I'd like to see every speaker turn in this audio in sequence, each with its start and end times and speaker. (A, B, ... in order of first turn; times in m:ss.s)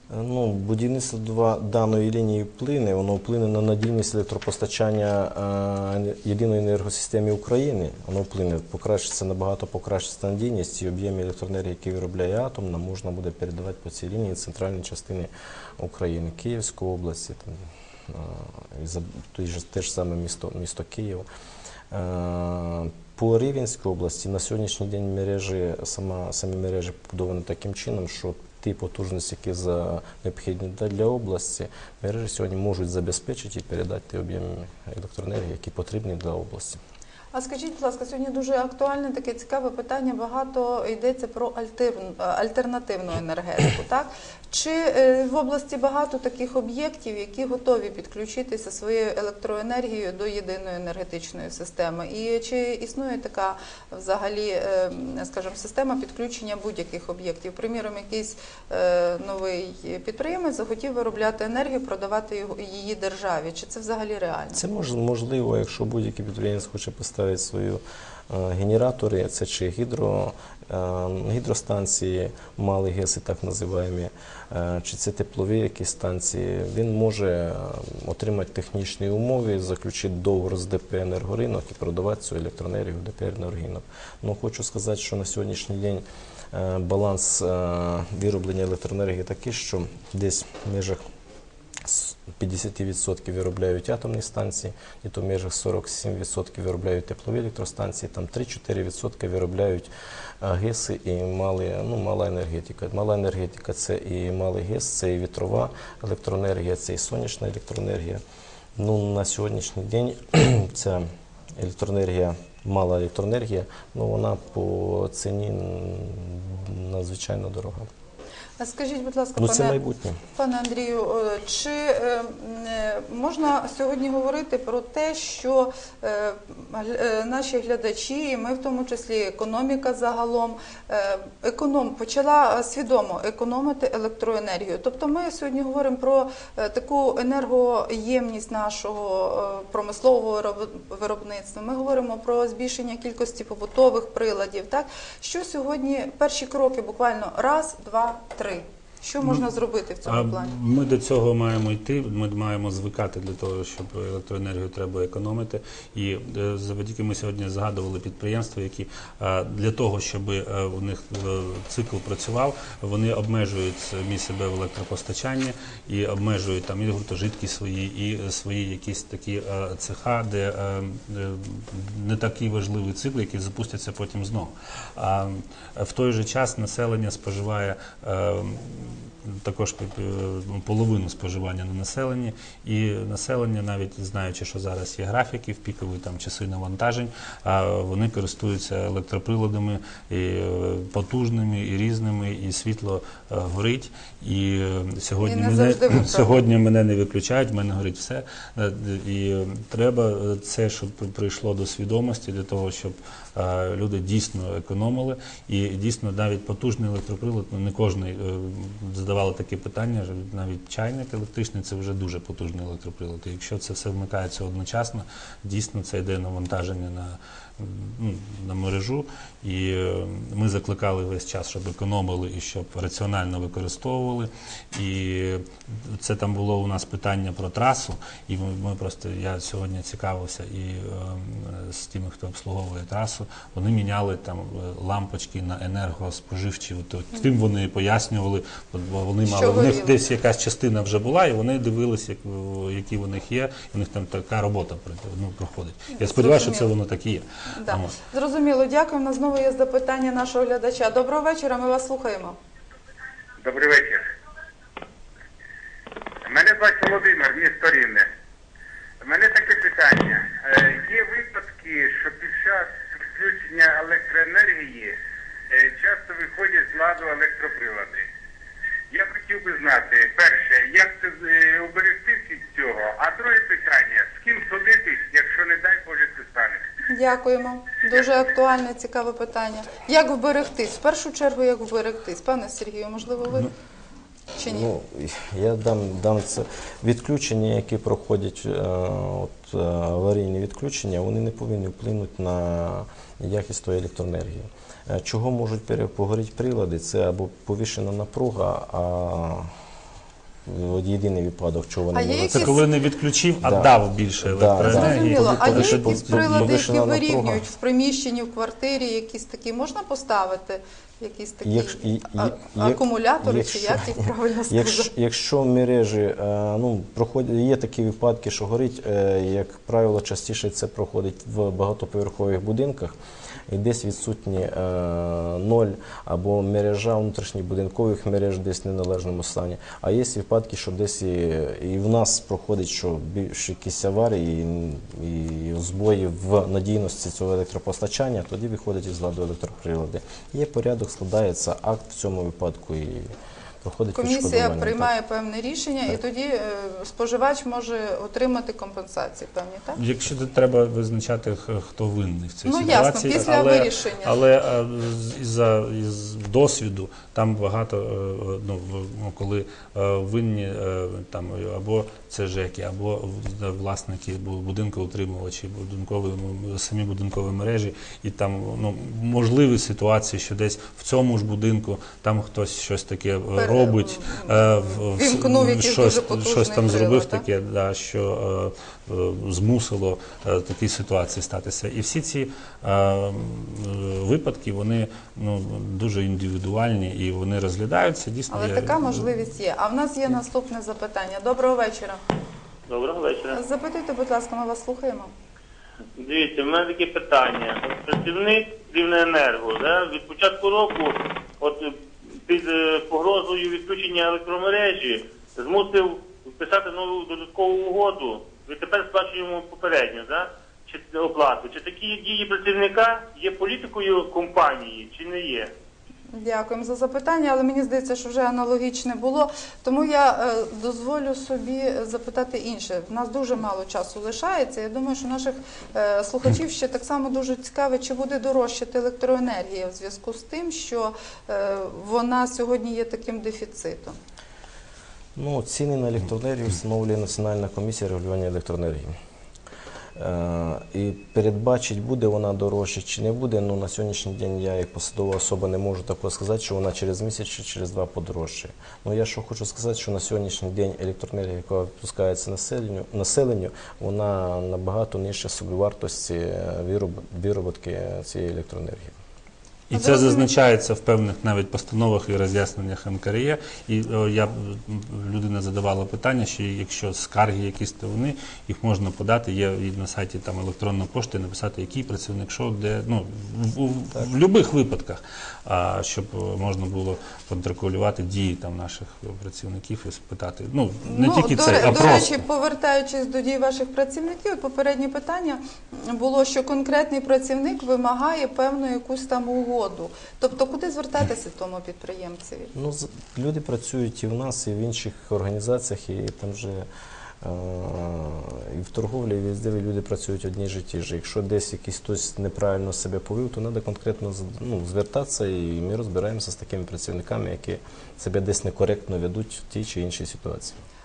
0:00.1-0:21.3 A
0:21.9-0:36.8 A
0:37.3-1:04.6 B
1:04.5-1:31.0 A
1:31.8-1:39.9 A
1:40.4-1:48.2 A
1:48.8-1:57.9 A
1:58.6-1:59.8 B
1:59.4-2:00.2 A
2:00.4-2:30.5 B
2:29.2-2:29.5 C
2:30.0-4:08.0 C
3:15.2-3:16.4 B
3:59.2-4:00.0 B
4:06.0-4:06.7 B
4:07.5-4:12.4 B
4:13.4-4:14.1 D
4:16.2-4:18.1 D
4:19.0-4:25.0 D
4:25.5-4:28.1 D
4:28.9-4:36.7 D
4:36.9-4:43.5 B
4:44.4-4:44.7 B
4:44.4-4:59.5 A
5:00.5-5:02.6 A
5:01.9-5:02.6 B
5:02.3-5:06.6 C
5:03.4-5:07.4 A
5:04.6-5:14.9 B
5:11.4-5:23.0 A
5:23.5-5:43.1 A
5:43.6-5:44.9 A
5:43.9-5:49.8 B
5:49.8-6:29.1 C
5:52.4-5:54.2 B
6:13.4-6:17.2 B
6:28.3-6:32.0 B
6:32.7-6:33.4 E
6:33.3-6:35.1 B
6:36.0-6:55.5 E
6:56.2-7:14.0 B
7:15.2-7:19.0 A
7:20.0-7:39.0 A
7:39.7-8:02.2 C
7:39.7-7:40.3 B
8:00.8-8:12.5 B
8:12.6-8:16.7 A
8:17.2-8:30.6 A